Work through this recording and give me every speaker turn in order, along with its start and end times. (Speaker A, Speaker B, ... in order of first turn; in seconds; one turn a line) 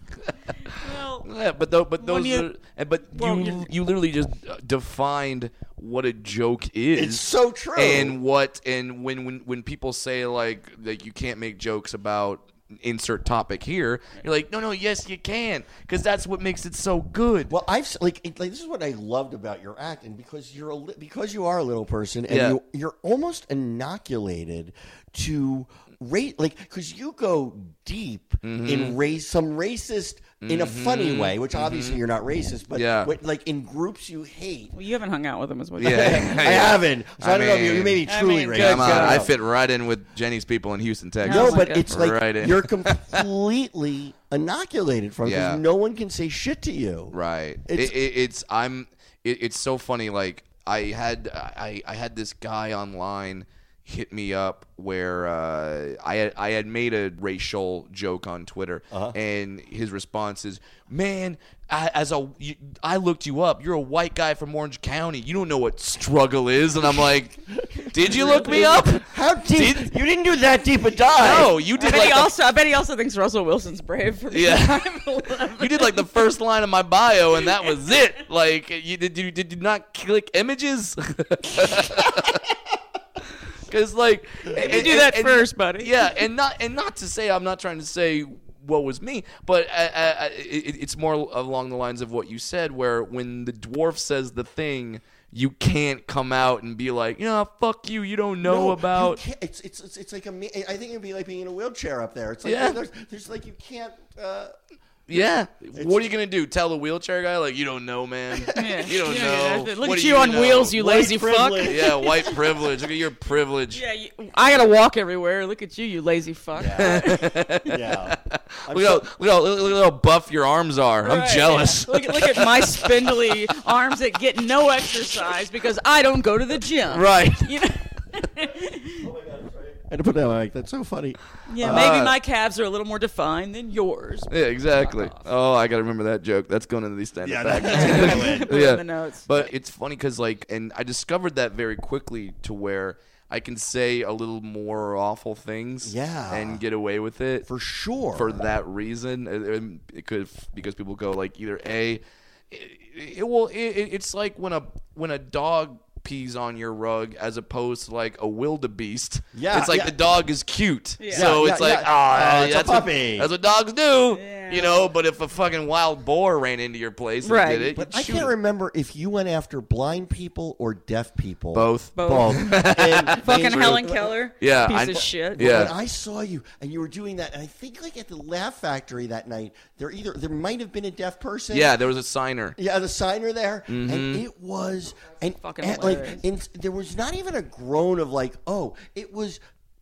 Speaker A: 0.3-17.5
Speaker B: 0.6-1.3
Speaker B: 2.0-2.5
Speaker B: 3.1-3.7
Speaker C: 6.9-8.2
Speaker C: 17.5-34.7
Speaker A: 22.3-22.6
Speaker A: 28.4-29.0
Speaker A: 30.4-32.0
Speaker A: 32.7-33.1
Speaker B: 34.7-36.4
Speaker A: 35.8-38.0
Speaker C: 35.8-39.3
Speaker B: 38.1-39.3
Speaker A: 38.5-43.2
Speaker B: 41.2-41.9
Speaker C: 41.2-47.1
Speaker A: 45.2-45.6
Speaker A: 47.1-69.9
Speaker C: 47.7-47.9
Speaker C: 58.9-59.2
Speaker C: 67.8-72.1
Speaker B: 68.0-68.8
Speaker A: 71.2-72.3
Speaker B: 71.2-76.1
Speaker A: 74.3-74.9
Speaker A: 75.6-82.4
Speaker A: 83.7-99.2
Speaker B: 84.5-86.1
Speaker C: 98.4-104.5
Speaker A: 102.4-102.8
Speaker A: 105.1-110.8
Speaker C: 105.7-106.1
Speaker C: 108.3-108.6
Speaker B: 108.5-112.3
Speaker C: 110.7-112.0
Speaker A: 111.6-113.8
Speaker B: 113.7-117.4
Speaker C: 116.5-119.0
Speaker A: 116.8-123.3
Speaker B: 121.0-129.1
Speaker A: 126.9-127.5
Speaker C: 129.0-132.1
Speaker B: 131.5-135.3
Speaker A: 131.6-132.1
Speaker A: 134.3-147.5
Speaker C: 137.2-138.5
Speaker B: 137.6-139.5
Speaker C: 145.8-146.6
Speaker C: 147.4-148.4
Speaker A: 148.1-168.3
Speaker C: 159.3-159.9
Speaker B: 161.0-161.3
Speaker C: 161.1-163.3
Speaker B: 164.1-164.9
Speaker B: 167.2-167.7
Speaker C: 167.7-174.1
Speaker A: 171.5-175.7
Speaker B: 171.9-172.4
Speaker B: 173.2-175.6
Speaker C: 174.9-181.7
Speaker A: 181.5-182.6
Speaker C: 182.6-189.4
Speaker A: 183.7-184.2
Speaker B: 185.3-186.2